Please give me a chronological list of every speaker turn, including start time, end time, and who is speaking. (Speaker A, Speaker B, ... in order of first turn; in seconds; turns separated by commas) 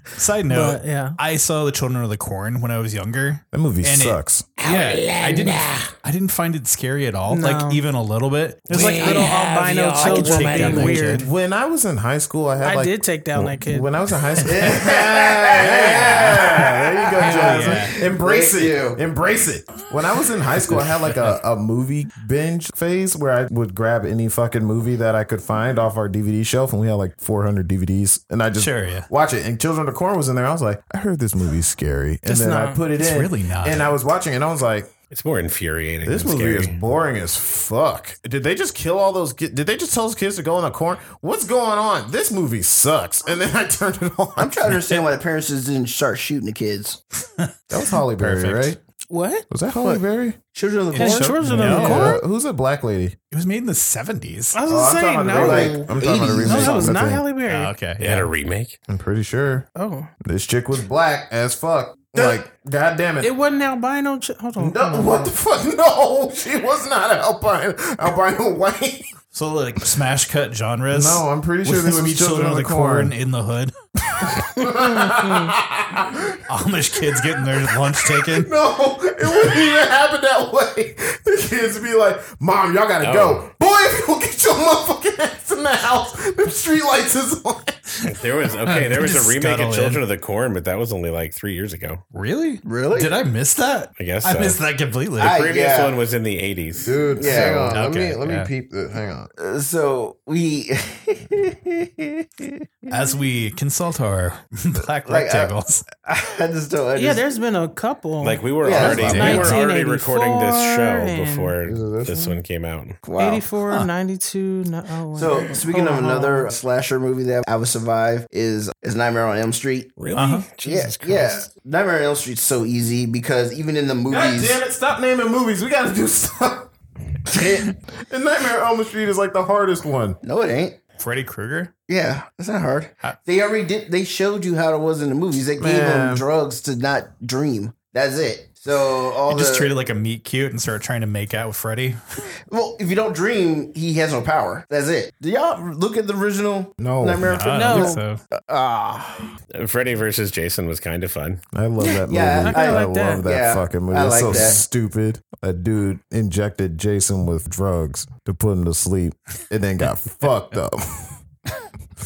Speaker A: 0.1-9.4, Speaker B: 0.5-1.2, Speaker C: 3.5-4.5, Speaker D: 4.6-5.9, Speaker B: 7.3-7.8, Speaker D: 8.7-11.0, Speaker B: 8.7-11.3, Speaker A: 9.9-11.3, Speaker C: 10.9-34.9, Speaker B: 12.6-13.9, Speaker A: 14.4-14.8, Speaker E: 14.4-19.0, Speaker A: 15.5-16.5, Speaker A: 17.2-17.9, Speaker A: 20.6-21.4, Speaker A: 28.6-29.1, Speaker B: 32.2-32.8, Speaker A: 33.0-33.9, Speaker D: 35.1-36.7, Speaker C: 36.0-44.9, Speaker E: 44.4-47.0, Speaker C: 47.7-48.8, Speaker A: 48.1-48.8, Speaker B: 49.1-49.5, Speaker C: 49.5-50.4, Speaker E: 49.8-52.0, Speaker A: 50.9-52.2, Speaker B: 50.9-52.2, Speaker C: 51.5-53.1, Speaker A: 53.3-54.6, Speaker B: 54.5-57.7, Speaker C: 54.7-57.2, Speaker E: 55.3-57.1, Speaker A: 57.5-58.3, Speaker D: 58.0-58.8, Speaker C: 58.9-59.7, Speaker B: 59.7-60.1, Speaker C: 60.2-63.3, Speaker B: 63.2-65.3, Speaker C: 64.6-69.1, Speaker A: 69.3-73.7, Speaker C: 70.9-73.1, Speaker C: 74.1-76.4, Speaker B: 75.1-75.5, Speaker A: 76.5-78.5, Speaker C: 77.0-87.8, Speaker D: 83.0-83.5, Speaker D: 88.0-92.0, Speaker A: 88.7-90.0, Speaker A: 92.1-95.4, Speaker E: 92.6-93.1, Speaker D: 94.0-94.6, Speaker E: 95.2-95.9, Speaker D: 95.2-97.5, Speaker C: 96.8-99.3, Speaker E: 97.2-97.8, Speaker A: 97.7-98.5, Speaker E: 99.4-102.9, Speaker A: 102.9-105.8, Speaker E: 105.0-107.2, Speaker B: 106.9-111.5, Speaker D: 108.2-113.0, Speaker E: 108.6-109.5, Speaker A: 108.8-109.6, Speaker C: 111.6-112.4, Speaker E: 113.0-113.5, Speaker B: 113.2-116.5, Speaker E: 115.1-120.0, Speaker D: 120.0-121.5, Speaker A: 120.1-120.5, Speaker E: 120.6-124.6, Speaker C: 124.1-126.7, Speaker E: 127.3-127.7, Speaker C: 127.3-130.2, Speaker E: 130.2-130.8, Speaker A: 131.0-131.7, Speaker E: 131.9-139.7, Speaker C: 135.6-136.2, Speaker A: 139.3-142.0, Speaker E: 142.5-149.3, Speaker C: 146.8-147.3, Speaker A: 147.2-148.2, Speaker B: 147.5-148.0, Speaker D: 149.5-151.4, Speaker C: 151.5-161.2, Speaker B: 151.8-153.2, Speaker E: 152.1-154.6